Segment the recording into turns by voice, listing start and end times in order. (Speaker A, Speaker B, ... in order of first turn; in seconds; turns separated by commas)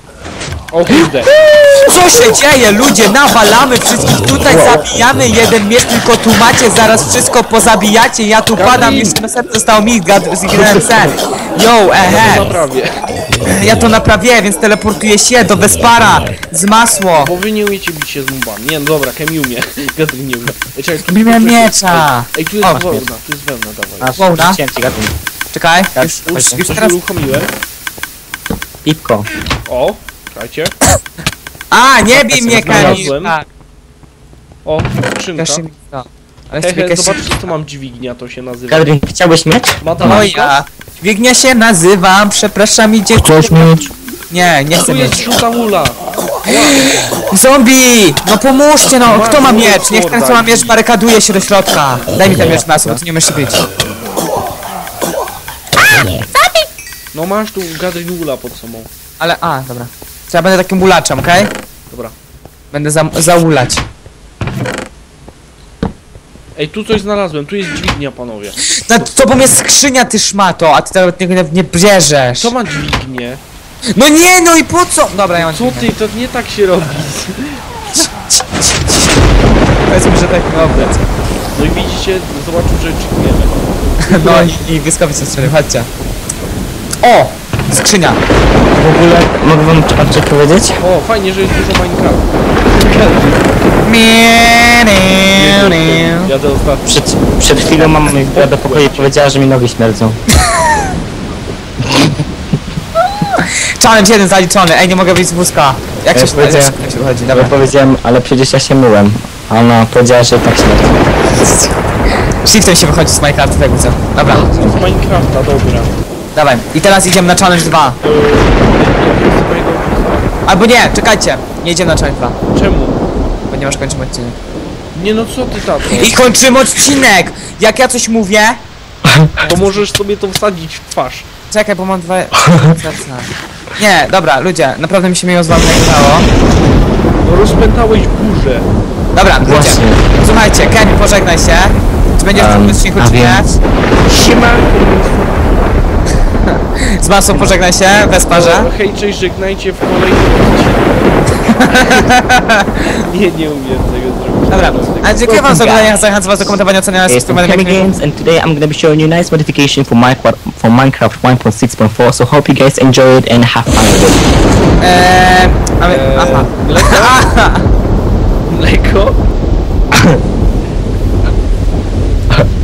Speaker A: 0.7-1.3, Speaker B: 1.5-1.7, Speaker C: 1.8-12.4, Speaker B: 4.5-5.0, Speaker A: 8.5-9.2, Speaker A: 12.0-13.0, Speaker C: 13.5-17.3, Speaker A: 17.1-24.3, Speaker C: 21.1-22.3, Speaker B: 22.6-23.1, Speaker B: 24.0-25.1, Speaker C: 24.1-24.6, Speaker C: 25.5-27.0, Speaker B: 25.9-26.6, Speaker A: 26.2-27.5, Speaker B: 28.8-29.3, Speaker A: 29.7-30.7, Speaker C: 31.7-33.5, Speaker B: 32.1-33.1, Speaker A: 32.5-33.4, Speaker A: 34.6-35.6, Speaker C: 35.4-37.2, Speaker A: 36.6-38.9, Speaker B: 38.7-40.3, Speaker A: 39.8-40.6, Speaker C: 40.0-43.6, Speaker B: 43.2-43.9, Speaker C: 44.3-45.2, Speaker A: 44.7-46.8, Speaker C: 46.7-53.6, Speaker A: 49.0-50.8, Speaker B: 52.3-53.0, Speaker A: 57.1-58.9, Speaker C: 59.2-61.5, Speaker C: 62.7-63.8, Speaker A: 66.5-68.6, Speaker C: 68.7-72.5, Speaker A: 72.4-73.4, Speaker C: 73.9-75.9, Speaker A: 75.3-78.1, Speaker C: 77.9-79.2, Speaker C: 79.8-81.1, Speaker A: 80.6-80.9, Speaker A: 81.5-84.6, Speaker C: 84.0-85.9, Speaker C: 87.0-88.2, Speaker B: 88.7-90.8, Speaker A: 90.8-93.5, Speaker C: 93.8-96.3, Speaker A: 95.3-96.9, Speaker B: 96.8-100.2, Speaker A: 97.5-99.1, Speaker C: 100.5-100.8, Speaker B: 101.8-102.2, Speaker C: 103.4-107.5, Speaker B: 106.1-111.0, Speaker C: 111.3-111.8, Speaker C: 112.4-114.7, Speaker A: 114.3-115.9, Speaker B: 114.3-114.8, Speaker C: 116.3-118.0, Speaker A: 118.0-120.3, Speaker C: 120.5-122.4, Speaker A: 122.5-123.0, Speaker C: 123.5-124.4, Speaker A: 124.9-126.2, Speaker C: 125.9-128.6, Speaker B: 129.1-129.3, Speaker C: 129.4-129.8, Speaker A: 129.5-131.3, Speaker C: 131.5-136.3, Speaker B: 132.4-132.7, Speaker A: 137.2-138.7, Speaker C: 139.1-143.5, Speaker B: 139.4-140.0, Speaker B: 142.3-143.4, Speaker A: 144.1-145.5, Speaker C: 147.0-148.7, Speaker A: 148.3-152.0, Speaker C: 151.5-152.8, Speaker A: 152.9-155.3, Speaker C: 154.5-157.8, Speaker B: 155.3-155.9, Speaker B: 157.1-164.2, Speaker C: 164.8-167.7, Speaker A: 165.8-167.2, Speaker A: 168.5-169.2, Speaker B: 169.9-170.2